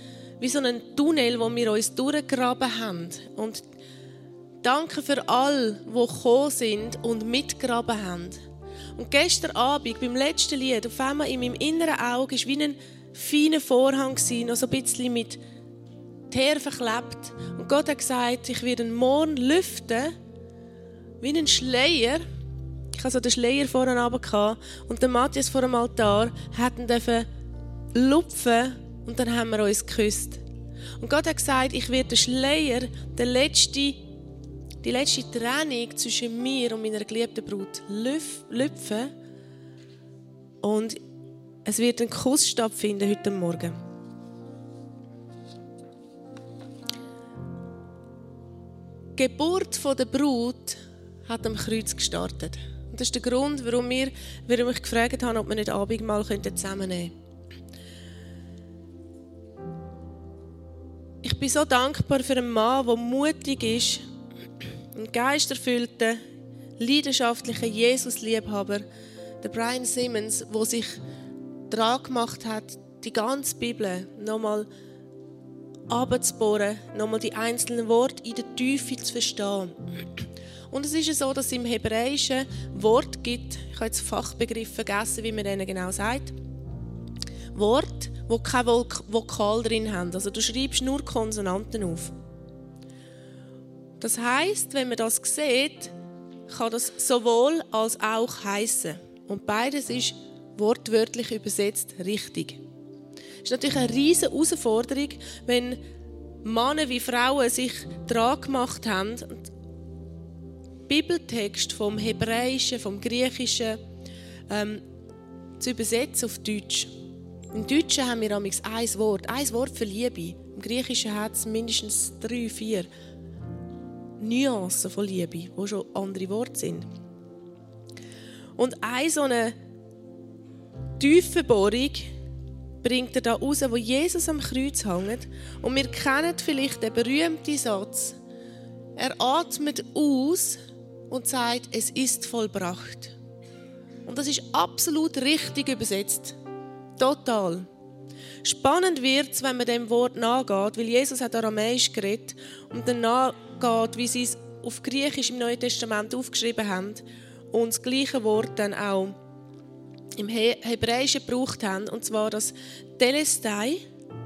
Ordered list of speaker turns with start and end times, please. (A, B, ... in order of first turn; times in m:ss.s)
0:00.4-0:03.6 A
0:04.6-0:08.4 A
0:08.9-0:15.4 A
0:16.3-0:20.1 A
0:21.2-0:22.2 A
0:22.9-0:27.3 A
0:27.9-0:30.4 A
0:31.0-0:34.0 A
0:34.8-0:39.1 A
0:40.6-0:41.0 A
0:41.6-0:43.8 A
0:49.2-0:57.1 A
1:01.2-1:04.0 A
1:04.9-1:06.2 A
1:06.8-1:08.8 A
1:09.4-1:11.0 A
1:11.7-1:14.7 A
1:15.9-1:20.0 A
1:20.7-1:26.3 A
1:27.5-1:32.1 A
1:34.0-1:35.9 A
1:36.5-1:42.6 A
1:43.4-1:45.8 A
1:46.4-1:49.5 A
1:50.9-1:53.8 A
1:54.5-1:54.8 A
1:55.6-1:56.9 A
1:57.5-2:02.9 A
2:04.2-2:06.8 A
2:08.6-2:09.6 A
2:11.0-2:12.1 A
2:12.8-2:18.2 A
2:19.0-2:20.6 A
2:21.1-2:23.1 A
2:24.0-2:26.4 A
2:27.0-2:27.7 A
2:28.4-2:39.1 A
2:40.2-2:43.8 A